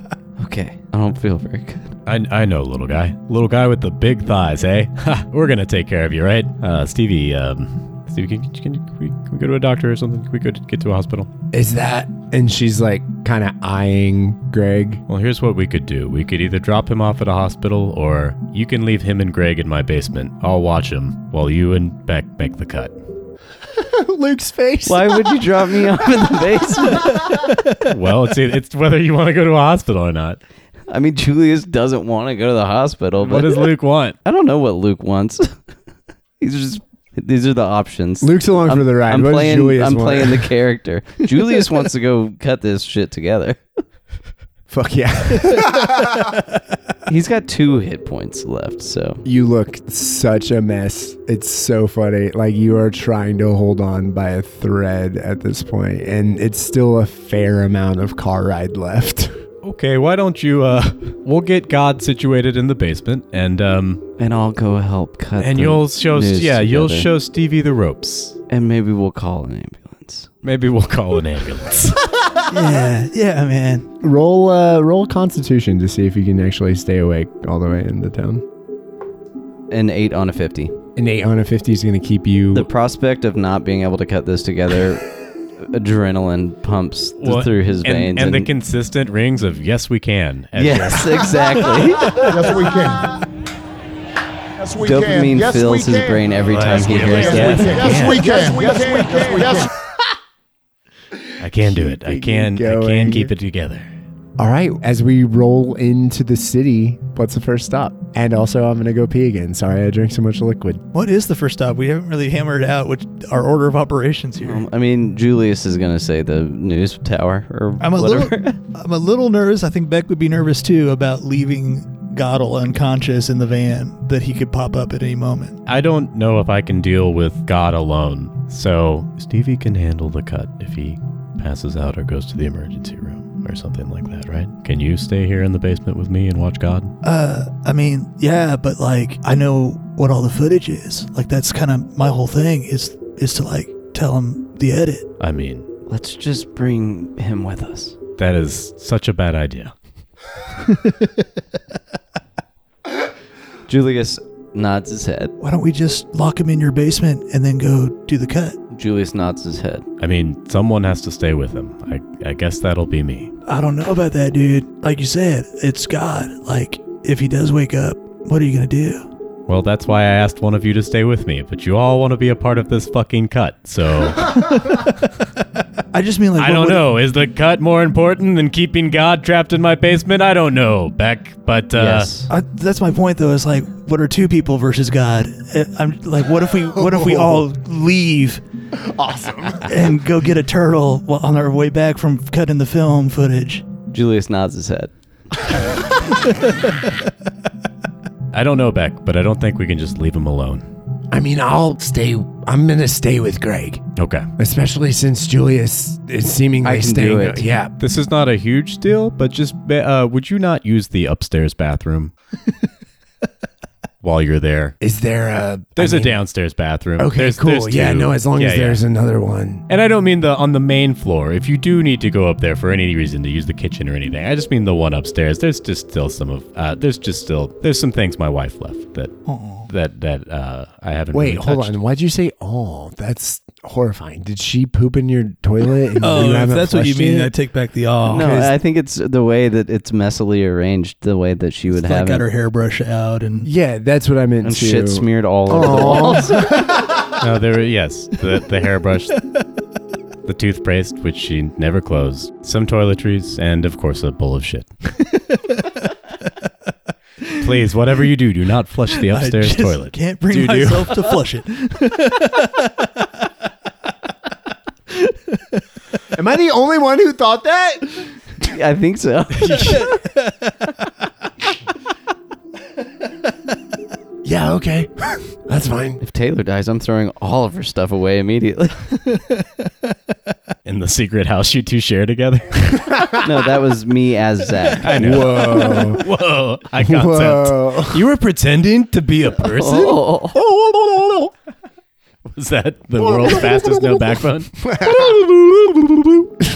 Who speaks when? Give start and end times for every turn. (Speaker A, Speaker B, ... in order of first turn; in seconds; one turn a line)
Speaker A: 0.4-1.9
Speaker B: 2.1-11.3
Speaker C: 11.5-15.0
Speaker B: 15.1-22.9
Speaker C: 23.7-26.3
Speaker A: 24.9-27.4
Speaker B: 27.8-30.4
Speaker A: 30.9-33.7
Speaker B: 33.2-34.2
Speaker A: 34.2-35.6
Speaker A: 36.4-43.6
Speaker C: 38.2-40.5
Speaker C: 44.7-46.4
Speaker A: 47.1-49.2
Speaker C: 49.2-59.4
Speaker B: 59.6-64.0
Speaker A: 64.2-67.1
Speaker B: 65.4-68.4
Speaker A: 68.5-70.3
Speaker B: 70.4-72.1
Speaker D: 72.5-73.9
Speaker C: 74.0-78.5
Speaker A: 79.7-80.8
Speaker C: 81.0-82.7
Speaker A: 82.5-85.1
Speaker A: 85.6-88.5
Speaker B: 87.2-91.4
Speaker A: 90.5-92.3
Speaker E: 92.1-93.2
Speaker E: 94.6-96.3
Speaker A: 94.8-97.9
Speaker B: 96.5-98.3
Speaker E: 97.1-99.7
Speaker B: 101.4-103.9
Speaker C: 101.5-103.3
Speaker C: 104.4-110.8
Speaker D: 110.9-114.6
Speaker A: 114.4-118.6
Speaker D: 117.8-125.6
Speaker B: 125.7-136.9
Speaker D: 137.0-145.1
Speaker B: 145.2-145.7
Speaker A: 145.9-148.0
Speaker B: 148.2-149.7
Speaker D: 150.8-151.0
Speaker A: 153.7-155.3
Speaker D: 155.4-158.6
Speaker A: 158.7-159.8
Speaker B: 160.0-163.3
Speaker D: 163.5-169.1
Speaker B: 169.5-174.4
Speaker D: 174.3-174.9
Speaker D: 175.9-176.9
Speaker B: 176.4-182.1
Speaker A: 181.7-182.3
Speaker D: 182.3-188.4
Speaker C: 186.7-187.5
Speaker C: 188.7-189.9
Speaker D: 189.7-193.7
Speaker A: 193.9-194.9
Speaker B: 198.3-200.7
Speaker C: 201.1-203.8
Speaker B: 204.0-204.3
Speaker C: 204.4-207.7
Speaker A: 206.6-207.5
Speaker B: 207.8-212.1
Speaker B: 214.0-214.8
Speaker C: 214.8-216.2
Speaker B: 215.8-218.8
Speaker C: 217.0-219.6
Speaker B: 219.7-231.8
Speaker D: 229.3-229.7
Speaker C: 231.1-237.3
Speaker D: 236.0-238.5
Speaker A: 238.1-242.2
Speaker C: 238.1-238.5
Speaker D: 241.7-243.5
Speaker C: 243.4-247.1
Speaker A: 244.4-246.6
Speaker B: 247.2-249.2
Speaker B: 250.3-254.7
Speaker D: 255.2-255.8
Speaker B: 257.4-260.0
Speaker D: 259.0-263.0
Speaker C: 260.3-261.0
Speaker D: 264.9-265.6
Speaker C: 266.1-268.1
Speaker A: 268.4-269.8
Speaker D: 269.6-270.3
Speaker C: 274.2-276.0
Speaker A: 276.0-278.8
Speaker D: 279.2-279.4
Speaker B: 280.6-283.1
Speaker C: 282.9-283.2
Speaker A: 283.2-285.1
Speaker B: 284.8-290.0
Speaker C: 284.9-286.1
Speaker C: 286.8-288.1
Speaker A: 289.4-290.4
Speaker C: 290.3-291.3
Speaker B: 292.3-296.2
Speaker C: 293.0-294.0
Speaker C: 294.6-295.2